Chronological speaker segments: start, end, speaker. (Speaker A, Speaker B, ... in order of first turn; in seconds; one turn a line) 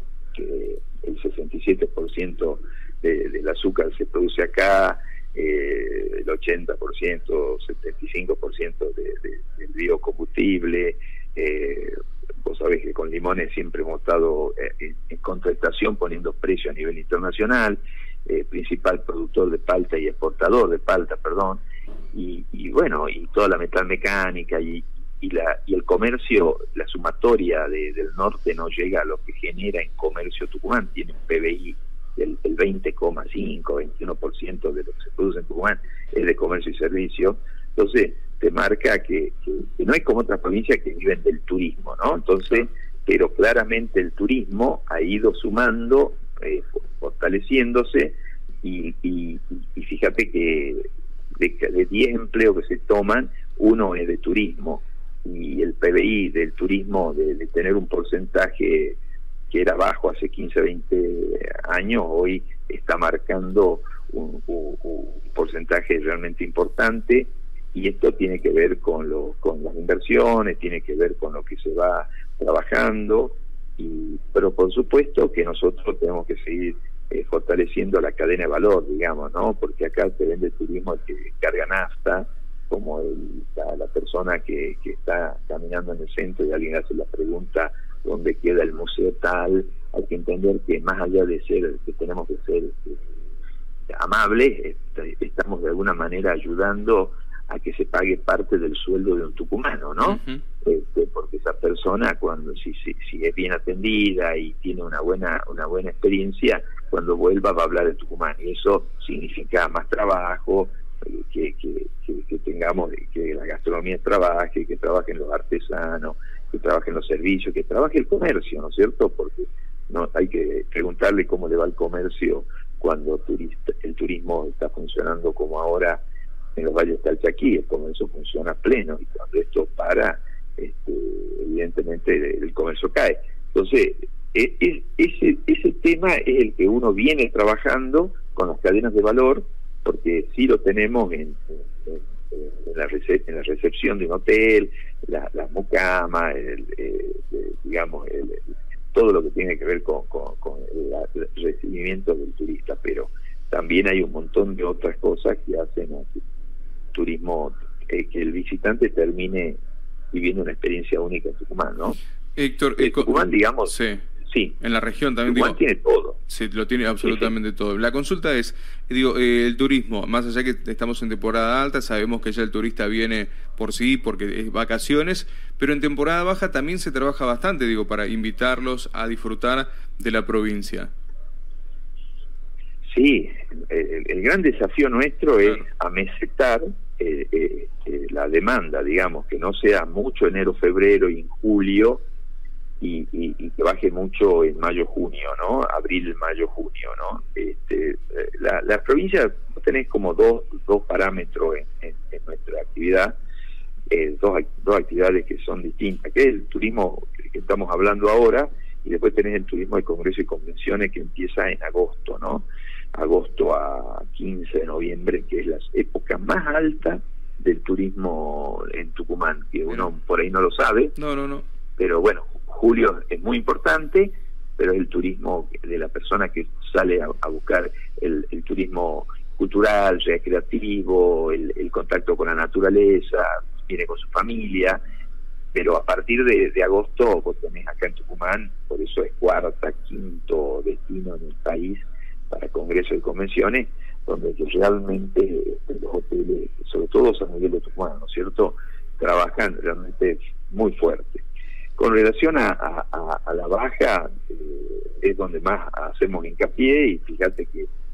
Speaker A: 0.3-59.0
Speaker A: 59.5-93.0
Speaker A: 93.9-126.0
Speaker B: 100.0-100.4
Speaker A: 126.6-156.2
Speaker A: 156.9-159.6
Speaker A: 160.1-162.0
Speaker B: 162.4-164.1
Speaker A: 162.8-163.7
Speaker A: 164.2-164.6
Speaker B: 164.6-165.6
Speaker A: 165.3-166.2
Speaker B: 166.3-180.9
Speaker A: 167.0-167.3
Speaker A: 182.9-192.0
Speaker A: 192.8-203.2
Speaker A: 203.9-221.0
Speaker B: 221.0-221.4
Speaker A: 221.8-234.8
Speaker A: 235.5-251.2
Speaker A: 251.8-257.7